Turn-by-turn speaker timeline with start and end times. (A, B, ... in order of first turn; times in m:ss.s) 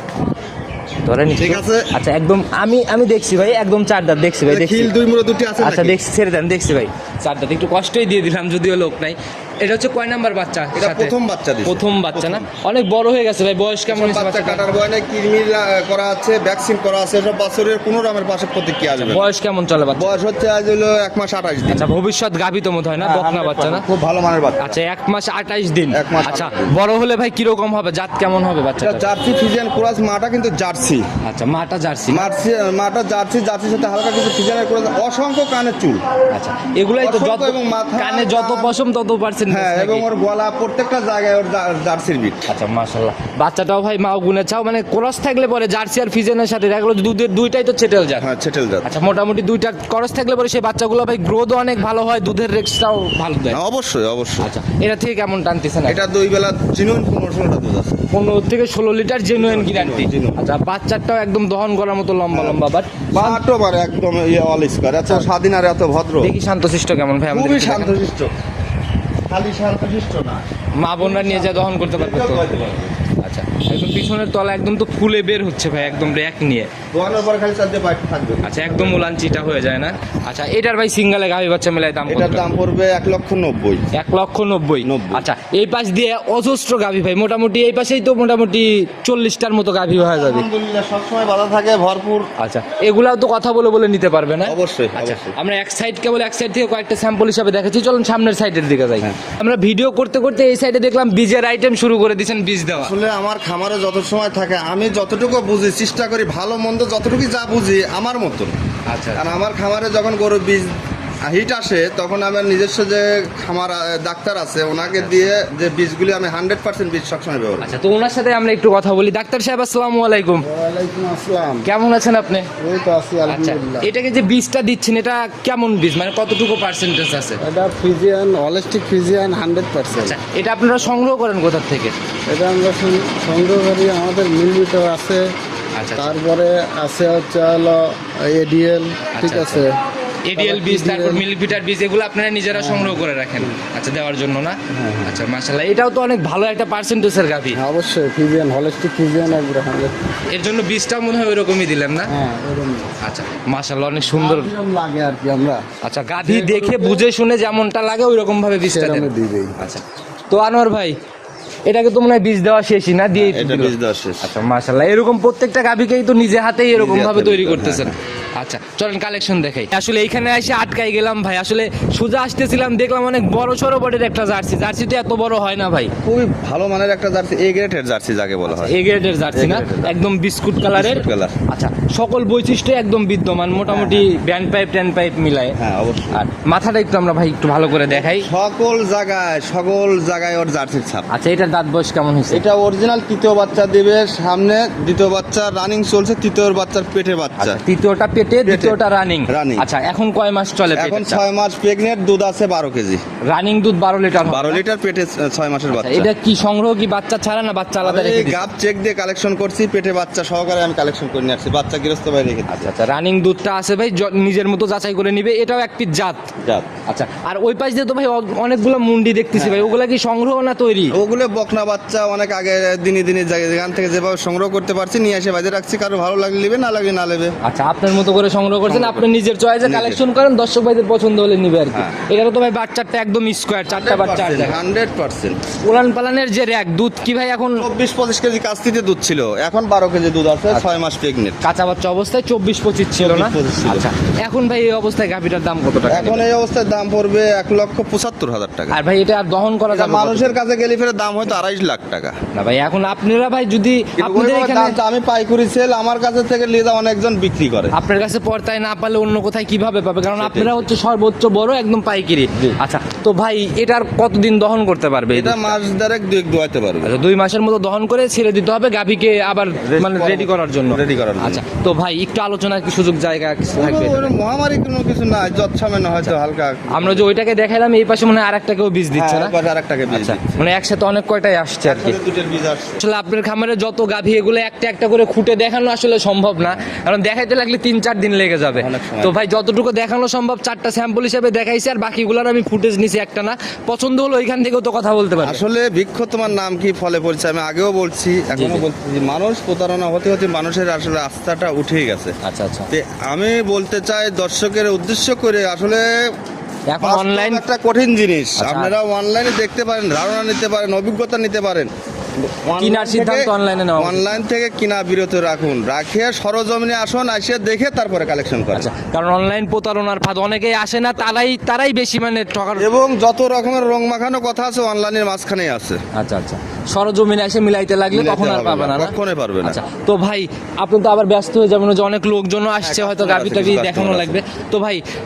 0:01.0-0:04.9 A
0:01.4-0:01.9 B
0:04.4-0:06.0 B
0:05.6-0:11.1 A
0:10.7-0:12.5 B
0:11.6-0:14.6 A
0:13.9-0:19.3 B
0:19.0-0:20.2 A
0:20.0-0:21.9 B
0:21.7-0:23.8 A
0:23.0-0:24.8 B
0:24.6-0:29.1 A
0:25.9-0:26.7 B
0:28.8-0:31.1 B
0:31.2-0:32.3 A
0:32.1-0:36.0 B
0:36.3-0:40.0 A
0:36.9-0:38.8 B
0:39.5-0:42.4 B
0:42.5-0:48.3 A
0:48.2-0:48.9 B
0:48.8-0:53.6 A
0:53.5-0:54.5 B
0:54.4-0:56.0 A
0:55.8-0:58.0 B
0:58.1-1:03.4 A
0:59.3-1:00.4 B
1:02.3-1:02.6 B
1:03.1-1:06.3 B
1:06.2-1:08.0 A
1:07.3-1:08.3 B
1:09.3-1:10.4 B
1:10.8-1:12.4 A
1:11.0-1:13.0 B
1:13.2-1:16.7 A
1:15.8-1:16.2 B
1:16.9-1:19.1 B
1:18.4-1:22.5 A
1:22.1-1:23.8 B
1:23.9-1:30.4 A
1:24.8-1:25.2 B
1:30.0-1:32.3 B
1:32.4-1:42.9 A
1:34.4-1:35.4 B
1:42.8-1:48.5 B
1:48.9-1:49.2 A
1:49.2-1:50.7 B
1:51.2-1:57.7 B
1:54.9-1:55.2 A
1:57.6-2:00.4 A
2:00.4-2:01.7 C
2:01.6-2:02.5 A
2:02.6-2:03.9 C
2:03.2-2:07.4 A
2:07.4-2:10.2 C
2:09.9-2:11.9 A
2:12.3-2:15.3 C
2:15.8-2:16.1 A
2:15.9-2:19.7 C
2:19.1-2:19.6 A
2:20.2-2:27.6 A
2:20.4-2:21.2 C
2:22.5-2:23.6 C
2:24.7-2:25.1 C
2:27.5-2:29.9 C
2:30.3-2:32.1 A
2:32.1-2:32.9 C
2:33.0-2:34.5 A
2:34.1-2:35.6 C
2:35.8-2:41.0 A
2:36.2-2:37.0 C
2:38.6-2:39.6 C
2:41.7-2:55.9 A
2:43.1-2:44.3 B
2:46.7-2:48.0 B
2:56.0-2:58.8 B
2:58.4-3:05.6 A
2:59.3-3:00.0 B
3:00.7-3:01.4 B
3:03.7-3:04.1 B
3:05.6-3:06.2 B
3:06.1-3:08.3 A
3:07.9-3:11.1 B
3:11.1-3:12.4 A
3:12.3-3:17.6 B
3:17.4-3:21.2 A
3:18.4-3:19.6 B
3:20.8-3:23.0 B
3:23.3-3:24.6 A
3:24.3-3:26.1 B
3:25.7-3:28.5 A
3:27.8-3:32.7 B
3:32.5-3:36.3 A
3:36.4-3:36.7 B
3:36.9-3:40.9 A
3:39.3-3:39.7 B
3:40.9-3:47.3 B
3:47.4-3:54.6 A
3:48.6-3:49.1 B
3:49.6-3:50.0 B
3:51.7-3:52.0 B
3:53.7-3:55.4 B
3:55.6-3:57.6 A
3:57.6-4:01.4 B
4:01.4-4:06.3 A
4:03.0-4:03.9 B
4:05.9-4:08.8 B
4:08.7-4:10.4 A
4:09.7-4:12.1 B
4:12.3-4:14.8 A
4:14.0-4:17.7 B
4:17.7-4:25.6 A
4:20.1-4:20.6 B
4:25.1-4:26.9 B
4:26.8-4:34.1 A
4:29.6-4:31.4 B
4:33.5-4:37.1 B
4:36.7-4:39.3 A
4:38.9-4:40.4 B
4:39.9-4:42.0 A
4:41.6-4:42.8 B
4:42.8-4:55.4 A
4:48.6-4:49.1 B
4:55.2-5:02.1 B
4:58.3-4:58.6 A
5:02.2-5:02.7 A
5:02.7-5:05.9 B
5:06.7-5:07.4 A
5:06.8-5:11.7 B
5:08.4-5:08.7 A
5:12.2-5:18.7 B
5:12.6-5:14.1 A
5:18.5-5:22.7 A
5:22.6-5:25.8 B
5:25.9-5:34.8 A
5:27.9-5:29.6 B
5:32.6-5:34.2 B